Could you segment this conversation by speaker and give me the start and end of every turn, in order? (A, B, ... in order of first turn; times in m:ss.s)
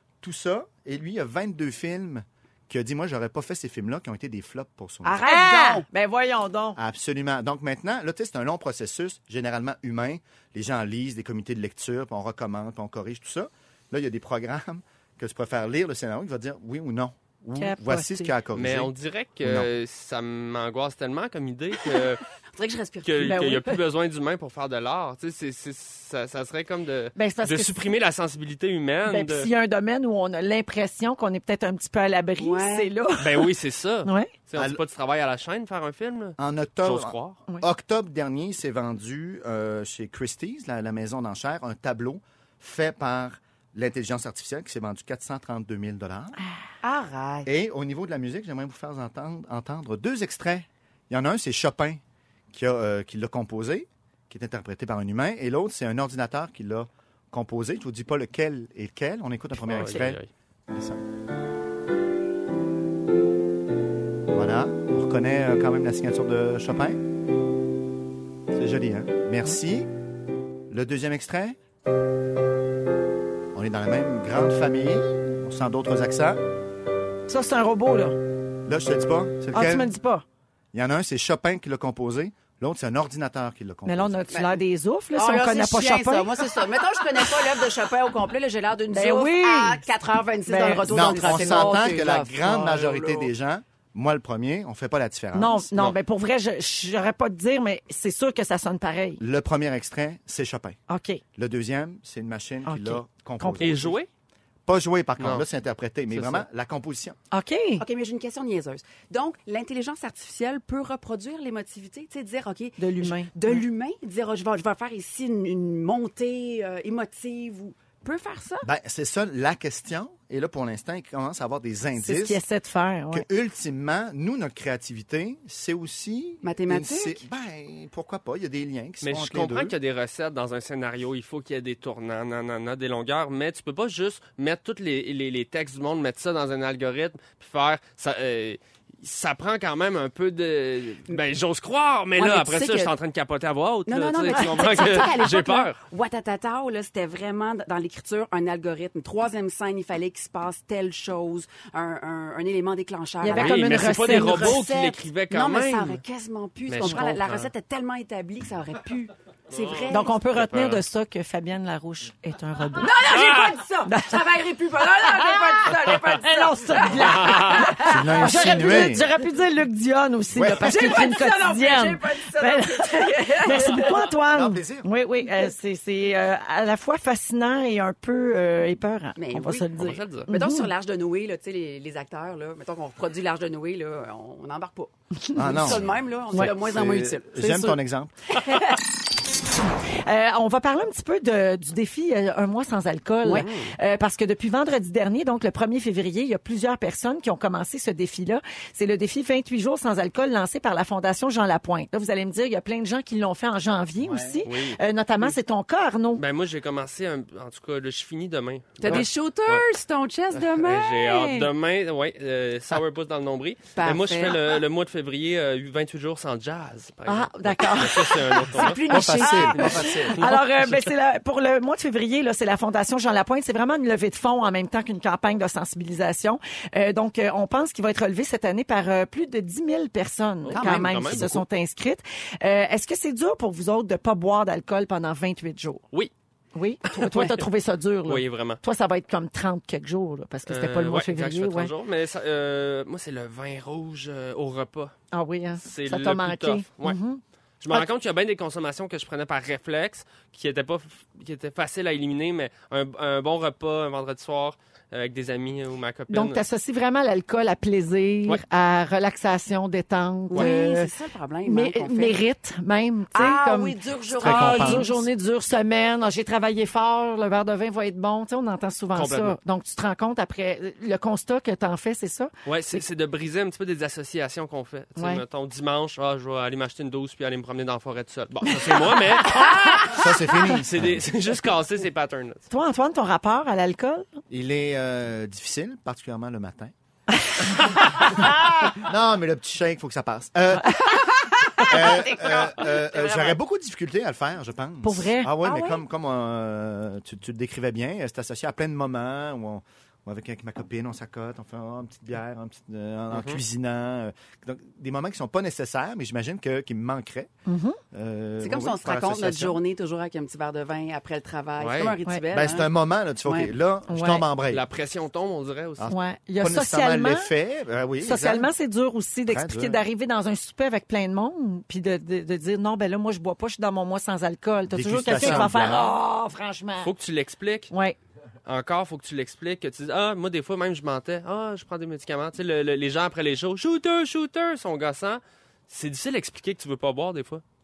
0:00.2-0:05.2 A
0:05.0-0:05.8 B
0:05.2-0:06.8 C
0:06.8-0:18.9 A
0:17.6-0:18.3 C
0:18.5-0:22.2 D
0:19.4-0:19.7 A
0:22.5-0:23.7 B
0:23.0-0:29.5 D
0:23.2-0:23.6 C
0:27.1-0:27.8 C
0:29.0-0:33.5 C
0:32.4-0:32.9 B
0:33.2-0:37.4 D
0:34.0-0:34.3 C
0:36.4-0:46.4 A
0:46.8-0:47.5 B
0:47.4-0:52.0 A
0:52.5-1:01.0 A
0:59.6-1:00.3 D
1:04.3-1:07.0 A
1:08.5-1:09.9 A
1:10.7-1:11.6 A
1:13.5-1:16.4 A
1:17.3-1:18.2 C
1:18.6-1:19.9 A
1:19.5-1:20.2 C
1:20.7-1:24.2 A
1:23.8-1:26.4 C
1:24.3-1:24.6 B
1:25.1-1:33.3 B
1:28.9-1:29.8 C
1:30.4-1:31.8 C
1:30.9-1:36.0 A
1:35.3-1:39.2 C
1:39.2-1:40.8 A
1:40.9-1:41.2 C
1:41.4-1:44.0 A
1:42.6-1:43.8 C
1:43.6-1:44.1 D
1:44.6-1:47.2 A
1:45.2-1:45.4 D
1:46.1-1:46.4 D
1:47.3-1:47.8 C
1:47.8-1:58.7 B
1:52.8-1:53.6 C
1:58.6-2:02.4 A
2:02.0-2:03.2 C
2:03.1-2:09.7 A
2:06.4-2:07.2 B
2:09.0-2:25.8 D
2:22.2-2:22.9 B
2:23.9-2:40.2 B
2:24.3-2:24.9 C
2:33.2-2:34.6 C
2:33.3-2:36.0 D
2:36.7-2:37.5 D
2:36.8-2:37.1 C
2:39.5-2:40.8 D
2:39.9-2:43.0 C
2:42.8-2:48.9 B
2:43.1-2:43.5 D
2:43.8-2:44.2 C
2:46.1-3:00.7 C
2:47.1-2:47.7 D
2:47.8-2:49.0 A
2:50.3-2:50.9 A
2:50.6-2:54.1 B
2:54.3-2:54.9 A
2:59.2-3:07.4 B
2:59.7-3:00.3 D
3:05.3-3:05.6 C
3:05.3-3:08.1 A
3:07.4-3:07.8 C
3:08.5-3:08.7 B
3:10.0-3:26.2 C
3:13.2-3:13.7 B
3:13.3-3:13.6 D
3:24.0-3:24.4 A
3:24.4-3:24.8 D
3:26.2-3:29.6 D
3:28.8-3:31.5 B
3:30.3-3:38.8 D
3:33.8-3:34.5 B
3:37.0-3:55.8 C
3:38.8-3:40.2 A
3:38.9-3:39.8 B
3:50.4-3:51.4 D
3:50.7-3:51.2 A
3:56.5-4:01.7 C
3:56.8-3:57.5 D
3:58.1-3:58.6 D
4:00.5-4:04.9 D
4:05.1-4:07.9 C
4:05.6-4:07.0 D
4:07.6-4:16.4 D
4:16.1-4:20.9 C
4:20.3-4:22.2 B
4:21.4-4:32.3 C
4:23.1-4:25.1 B
4:24.2-4:24.8 A
4:28.9-4:29.4 D
4:32.4-4:42.5 D
4:35.0-4:35.2 C
4:39.9-4:41.0 A
4:42.5-4:44.1 C
4:44.3-4:46.7 A
4:48.0-4:50.9 A
4:50.8-4:53.4 B
4:51.6-5:07.3 A
4:54.8-4:55.3 C
4:55.4-4:55.8 B
5:03.1-5:03.4 D
5:07.4-5:07.8 C
5:07.9-5:09.6 A
5:08.4-5:12.7 B
5:11.6-5:12.0 D
5:12.3-5:14.6 A
5:13.2-5:13.5 B
5:13.9-5:14.2 C
5:14.5-5:15.9 D
5:15.8-5:18.5 A
5:15.9-5:17.3 C
5:18.0-5:26.9 C
5:19.3-5:19.8 A
5:24.7-5:25.9 A
5:25.1-5:25.7 D
5:26.8-5:27.7 D
5:27.7-5:28.0 C
5:28.4-5:37.4 D